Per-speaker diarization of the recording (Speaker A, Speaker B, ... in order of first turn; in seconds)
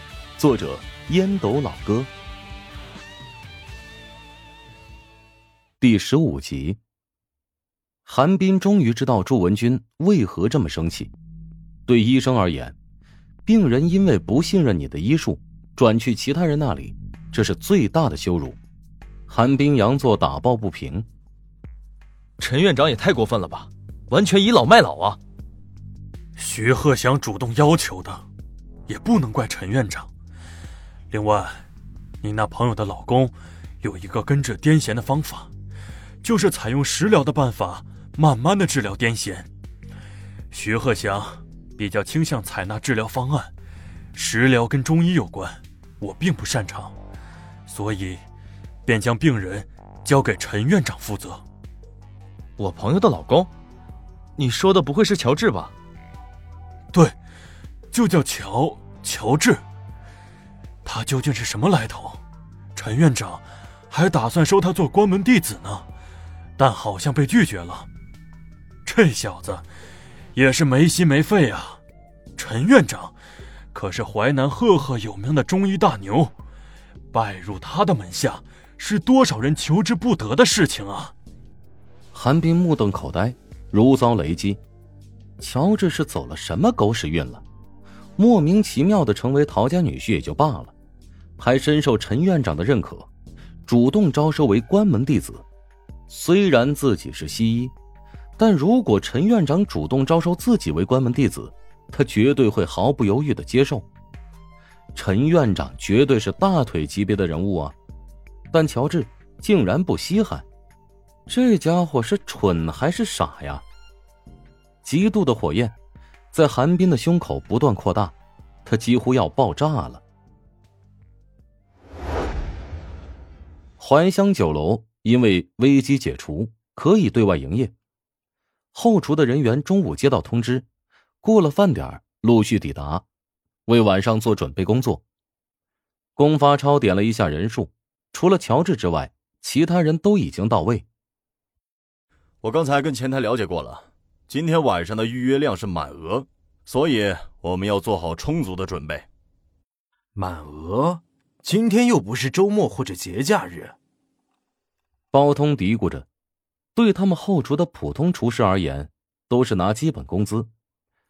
Speaker A: 0.4-2.1, 5.8-6.8, 8.1-11.1, 11.9-12.8, 13.5-18.6, 19.3-21.1, 82.1-84.6, 85.4-87.4, 88.2-90.7, 91.4-93.1, 93.7-95.5, 96.1-97.7, 98.4-103.9, 105.0-107.8, 108.5-110.5, 111.3-113.6, 114.8-115.7, 116.3-120.0, 123.8-127.7, 128.7-130.7, 131.2-133.1, 133.7-135.0, 136.2-140.9, 155.1-156.1, 156.8-160.5
Speaker B: 22.4-25.2, 52.6-53.5, 54.4-55.7
Speaker C: 26.4-28.2, 28.9-30.1, 31.1-31.6, 32.2-35.5, 36.2-39.5, 40.5-43.5, 44.1-46.9, 47.7-48.2, 48.9-51.4, 57.9-59.6, 60.9-62.2, 62.8-65.8, 66.6-67.9, 68.9-69.7, 70.4-71.8, 72.4-73.1, 73.7-76.3, 77.1-81.1
Speaker D: 142.4-149.1
Speaker E: 150.2-153.8